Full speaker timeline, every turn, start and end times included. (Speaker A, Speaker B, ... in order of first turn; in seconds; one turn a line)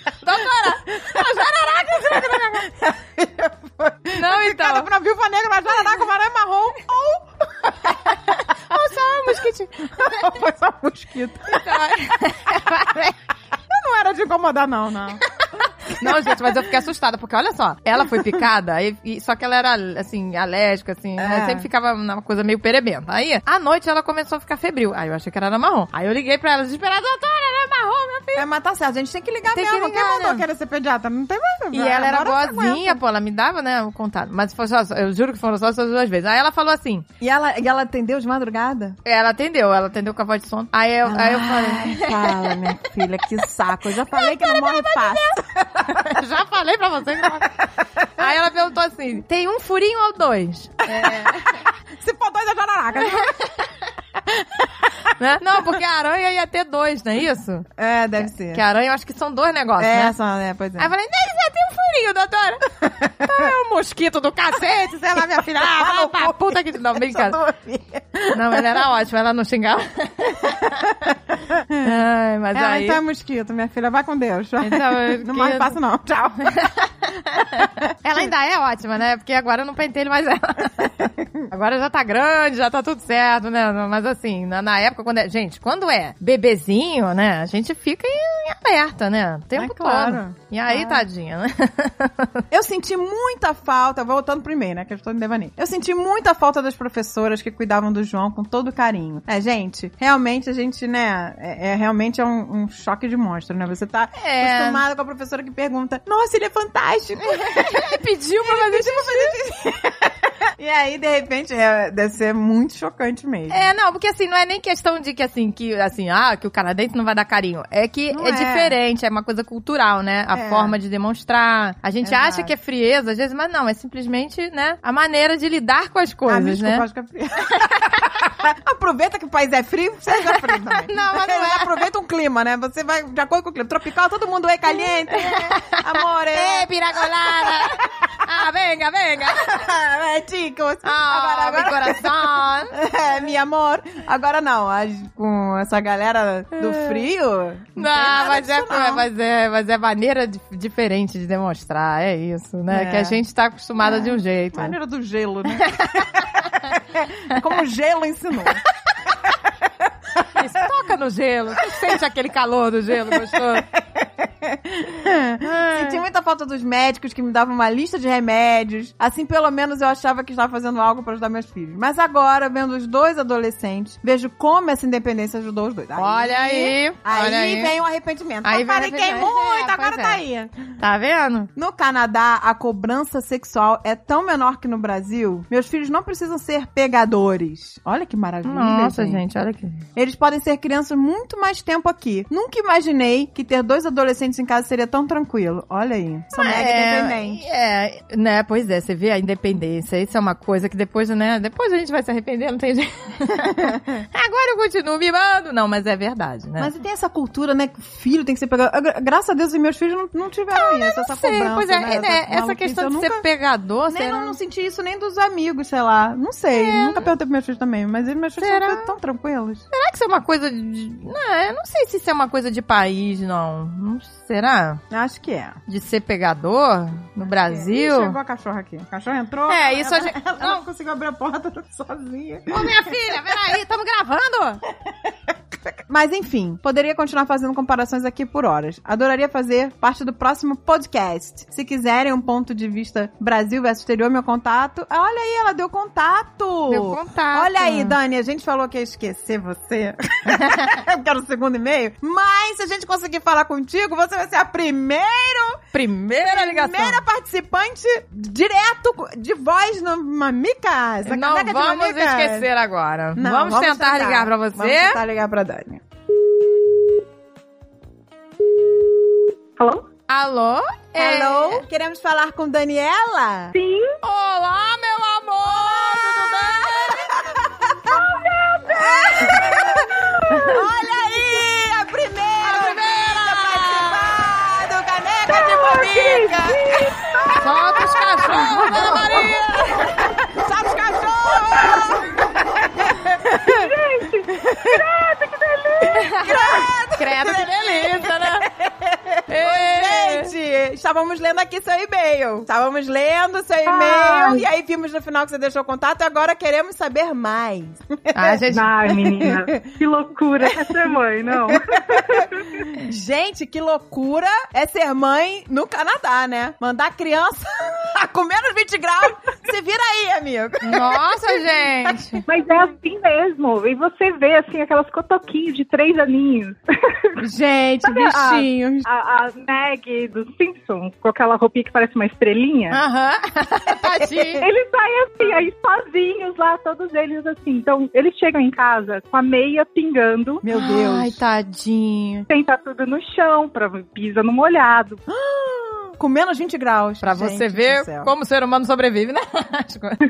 Speaker A: 0.2-2.7
Speaker B: 1.0-1.2
Speaker B: 1.9-8.2
Speaker A: 4.1-4.9
Speaker A: 8.3-10.3
Speaker B: 9.9-11.8
Speaker A: 11.5-13.2
Speaker B: 13.7-15.2
Speaker A: 15.8-28.4
Speaker B: 16.0-16.6
Speaker B: 21.2-21.7
Speaker B: 28.3-33.0
Speaker A: 29.5-30.4
Speaker A: 31.7-37.0
Speaker B: 37.2-39.0
Speaker A: 39.0-42.6
Speaker B: 41.0-46.1
Speaker A: 44.1-47.6
Speaker A: 48.1-51.6
Speaker B: 50.9-53.4
Speaker B: 54.2-54.8
Speaker A: 55.1-57.6
Speaker B: 57.8-58.6
Speaker A: 58.2-60.1
Speaker B: 59.8-60.9
Speaker A: 60.8-67.4
Speaker B: 65.1-68.8
Speaker A: 68.3-70.9
Speaker B: 71.5-72.0
Speaker A: 71.8-73.0
Speaker B: 72.5-76.7
Speaker A: 74.6-75.8
Speaker A: 76.5-80.9
Speaker B: 77.6-78.3
Speaker A: 81.4-92.4
Speaker B: 89.5-91.0
Speaker B: 92.5-113.7
Speaker A: 104.2-104.8
Speaker A: 107.2-109.4
Speaker A: 113.5-126.8
Speaker B: 118.1-118.8
Speaker B: 120.3-120.7
Speaker B: 122.0-122.5
Speaker B: 126.3-138.2
Speaker A: 130.3-131.8
Speaker A: 134.9-139.6
Speaker B: 139.3-149.1
Speaker A: 140.8-142.8
Speaker A: 146.6-147.0
Speaker A: 147.8-154.8
Speaker B: 152.7-153.2
Speaker B: 153.8-158.6
Speaker A: 155.6-156.1
Speaker A: 160.3-163.7
Speaker B: 163.1-180.5
Speaker A: 165.4-166.0
Speaker A: 175.9-177.7
Speaker A: 178.4-180.2
Speaker A: 180.8-181.5
Speaker B: 181.6-189.2
Speaker A: 188.4-189.8
Speaker B: 189.9-197.4
Speaker A: 196.3-206.7
Speaker B: 206.6-213.2
Speaker A: 210.5-214.4
Speaker B: 213.9-219.6
Speaker A: 216.5-217.1
Speaker A: 218.4-218.9
Speaker A: 219.7-224.8
Speaker B: 224.9-225.6
Speaker A: 225.7-228.2
Speaker B: 227.3-232.9
Speaker A: 229.5-230.6
Speaker A: 232.5-234.6
Speaker B: 235.7-255.6
Speaker A: 246.7-247.9
Speaker A: 255.7-257.0
Speaker B: 256.2-262.5
Speaker A: 261.0-265.0
Speaker B: 263.1-265.8
Speaker C: 269.6-269.8
Speaker A: 270.1-271.6
Speaker B: 271.0-273.5
Speaker C: 273.5-273.9
Speaker A: 274.0-277.2
Speaker B: 275.4-278.0
Speaker C: 277.8-279.9
Speaker B: 278.7-293.7
Speaker A: 282.4-284.1
Speaker C: 285.3-287.4
Speaker A: 287.4-289.9
Speaker C: 293.4-296.1
Speaker B: 294.3-294.8
Speaker A: 295.9-298.5
Speaker B: 296.1-309.6
Speaker A: 299.3-300.3
Speaker C: 303.6-304.4
Speaker A: 308.1-308.7
Speaker C: 308.5-312.6
Speaker B: 310.4-321.9
Speaker A: 320.6-322.2
Speaker C: 322.2-327.2
Speaker B: 327.2-328.9
Speaker C: 327.8-332.8
Speaker A: 332.7-334.5
Speaker B: 333.9-334.2
Speaker C: 334.4-340.4
Speaker B: 340.4-341.2
Speaker A: 340.5-342.3
Speaker C: 342.3-345.0
Speaker B: 345.1-348.1
Speaker A: 347.0-350.0